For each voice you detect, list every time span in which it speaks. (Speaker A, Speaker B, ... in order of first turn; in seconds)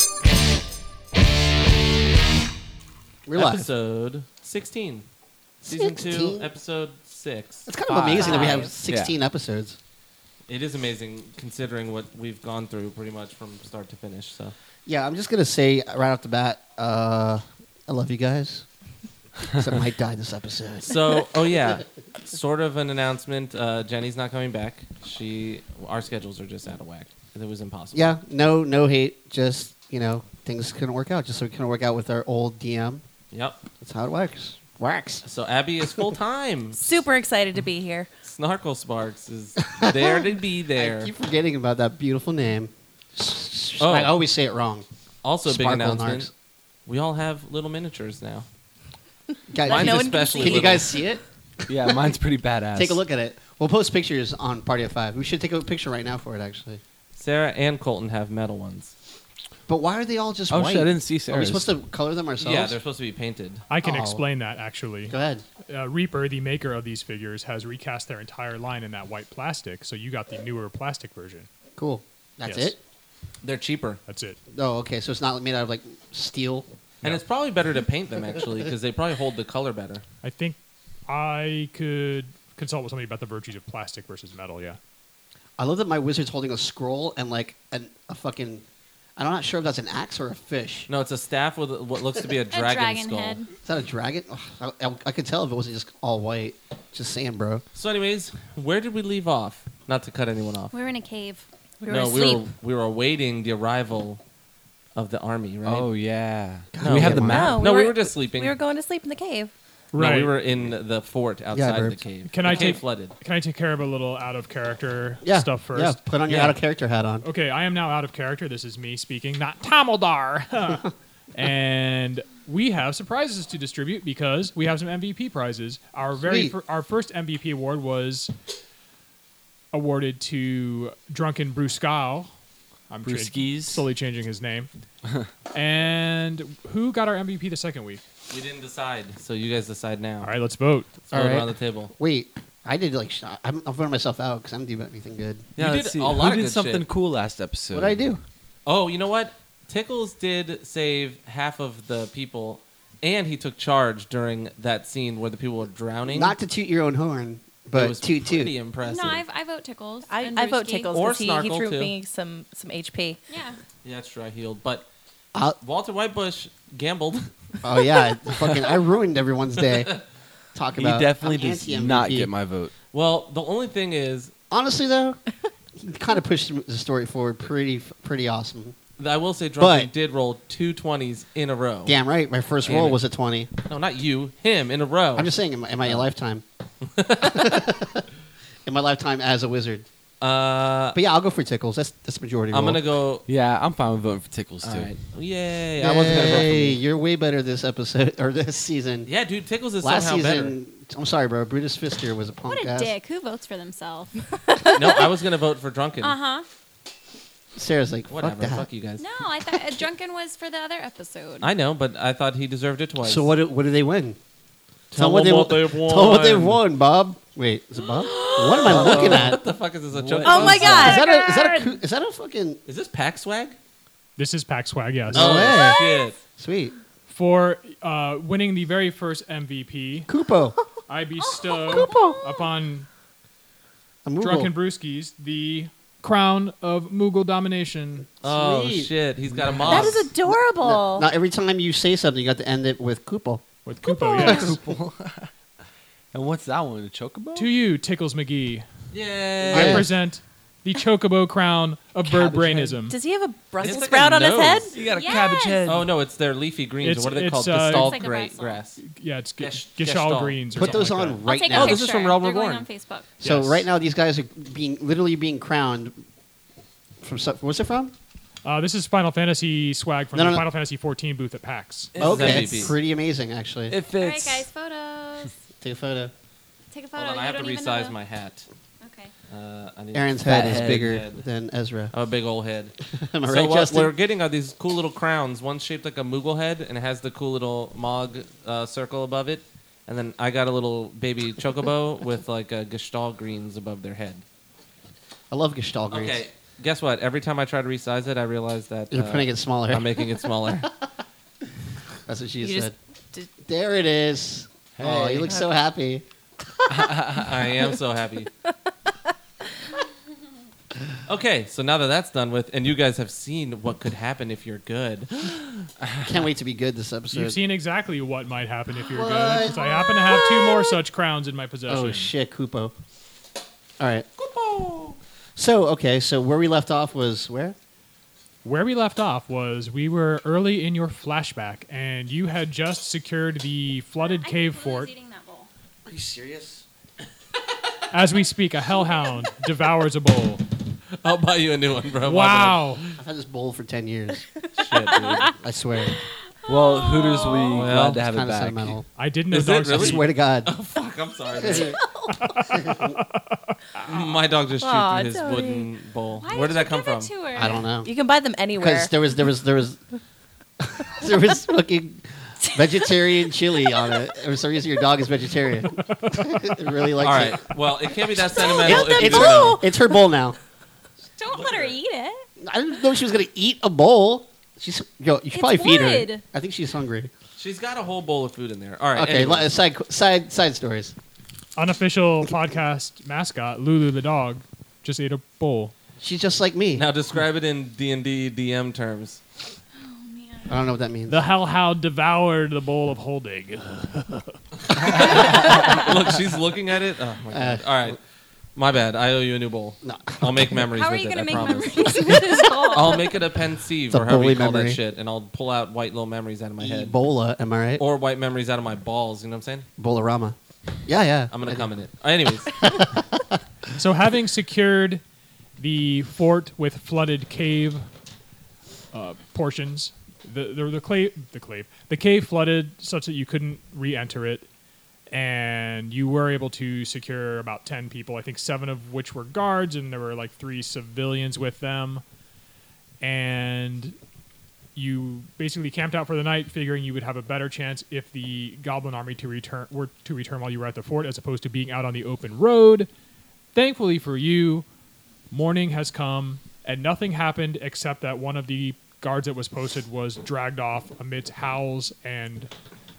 Speaker A: 3.2-3.7, 5.6-6.5, 7.7-9.8, 14.8-18.6, 19.5-21.8, 27.9-33.0, 33.8-35.2, 39.8-44.8, 45.4-46.3, 49.5-51.2, 52.7-56.8, 59.7-62.8, 63.8-64.2, 65.1-65.4, 71.8-72.8, 74.5-76.7, 85.6-88.6, 89.2-90.9, 93.6-97.6, 106.7-107.7, 111.5-112.0, 115.2-117.2, 126.2-126.5, 141.1-145.5, 147.7-148.2, 156.1-158.5, 167.6-170.0, 170.5-172.3, 174.5-175.2, 175.8-178.8, 179.6-179.9, 181.8-183.5, 185.2-186.4, 187.2-188.0, 188.7-189.8, 190.9-192.8, 195.8-199.1, 199.8-202.9, 207.5-208.7, 213.0-214.2, 214.9-219.4, 220.6-222.6, 225.1-225.8, 226.4-226.7, 230.1-230.6, 231.8-232.2, 234.0-234.5, 238.2-243.4, 244.2-244.6, 249.5-249.9, 252.4-252.7, 260.6-261.9, 263.2-266.0, 267.0-267.9, 270.1-270.4, 272.0-273.7, 275.6-276.1, 279.9-281.9, 282.9-283.9, 295.3-296.2, 298.9-300.0, 302.1-302.7, 303.4-306.0, 316.0-317.4, 318.9-319.7, 321.7-322.7, 323.8-324.1, 325.4-327.6, 335.9-336.6, 343.0-344.2, 345.2-346.0, 347.8-348.8, 349.7-350.5, 351.4-351.7, 352.5-352.9, 357.3-357.9, 358.6-359.8, 360.6-367.5, 368.5-370.4, 372.4-377.1, 378.9-380.9, 386.0-386.9, 390.5-391.2, 397.3-398.0, 399.8-400.6, 403.9-404.8, 406.6-407.8, 409.8-411.7
Speaker B: 3.3-5.0, 5.6-8.7, 10.5-14.5, 20.8-28.1, 33.3-33.6, 35.2-37.0, 38.2-41.1, 43.8-44.1, 45.2-46.3, 46.9-48.4, 49.6-50.9, 57.2-58.9, 62.4-63.6, 73.4-74.0, 77.0-80.0, 90.9-93.4, 97.7-100.7, 101.9-104.2, 104.9-105.9, 106.8-108.5, 110.0-113.1, 116.3-116.5, 138.3-140.3, 141.1-141.9, 145.6-146.8, 148.7-156.3, 157.7-159.2, 160.9-161.9, 163.8-164.9, 165.6-167.3, 172.9-174.3, 179.0-181.9, 182.6-183.0, 183.7-185.3, 186.9-187.6, 190.2-190.9, 192.5-193.2, 194.6-196.6, 199.1-200.6, 204.7-206.2, 208.1-209.0, 211.4-213.3, 214.9-216.6, 218.6-221.0, 222.7-223.6, 225.1-226.1, 238.2-240.0, 248.9-249.9, 253.6-254.7, 255.6-258.8, 259.4-262.6, 272.0-272.7, 276.9-278.5, 279.3-281.2, 281.9-294.2, 295.9-300.7, 307.1-308.3, 311.1-315.5, 324.2-324.9, 341.0-342.9, 344.6-345.3, 347.5-348.0, 349.3-351.8, 353.8-357.1, 367.0-369.6, 371.3-371.7, 377.4-379.5, 386.7-389.2, 394.7-398.0, 398.6-406.9, 407.8-409.6, 411.3-412.7
Speaker C: 8.2-8.7, 92.5-93.5, 100.7-101.5, 158.8-160.9, 163.3-163.6, 202.5-204.2, 206.0-206.4, 209.0-211.5, 217.9-218.6, 220.3-221.8, 225.3-226.1, 254.8-255.7, 257.7-258.6, 261.2-263.1, 273.9-275.3, 276.7-277.9, 278.8-279.1, 334.0-335.5, 344.9-345.3, 346.5-347.7, 356.2-357.7, 371.2-372.2, 375.3-376.2, 389.8-390.6, 400.7-403.2
Speaker D: 8.9-9.1, 51.7-53.0, 60.5-61.7, 105.6-107.7, 133.0-133.8, 145.6-148.0, 170.8-172.7, 193.3-194.9, 196.0-196.7, 218.7-219.3, 219.9-220.7, 244.4-245.3, 246.1-247.5, 254.7-255.9, 271.9-272.8, 273.7-274.5, 280.2-280.9, 304.8-305.3, 306.8-307.2, 346.5-348.8
Speaker E: 36.7-38.1, 49.6-50.9, 101.8-102.5, 107.3-109.5, 160.1-163.2, 220.2-221.1, 239.6-241.1, 252.0-254.7, 302.4-303.3, 305.2-305.5, 354.6-355.7, 357.8-358.9, 362.4-364.1, 368.4-369.8
Speaker F: 63.7-65.1, 65.7-71.5, 72.4-72.7, 74.1-74.4, 80.2-84.8, 109.9-110.3, 112.3-116.0, 117.2-128.3, 129.7-132.3, 132.9-134.7, 135.5-138.0, 140.2-140.9, 224.2-225.3, 227.1-230.1, 230.9-232.9, 234.2-238.1, 243.7-244.6, 247.3-248.6, 249.5-252.9, 256.8-257.9, 258.8-261.2, 263.2-263.7, 268.4-271.9, 317.1-322.1, 328.4-334.9, 337.9-340.4, 342.0-342.8, 348.9-350.0, 352.2-353.5, 381.6-385.7, 391.1-394.3, 413.8-415.0, 415.6-417.8, 418.9-424.5, 425.1-432.0, 433.0-433.9, 434.8-442.9, 443.5-444.6, 445.3-452.5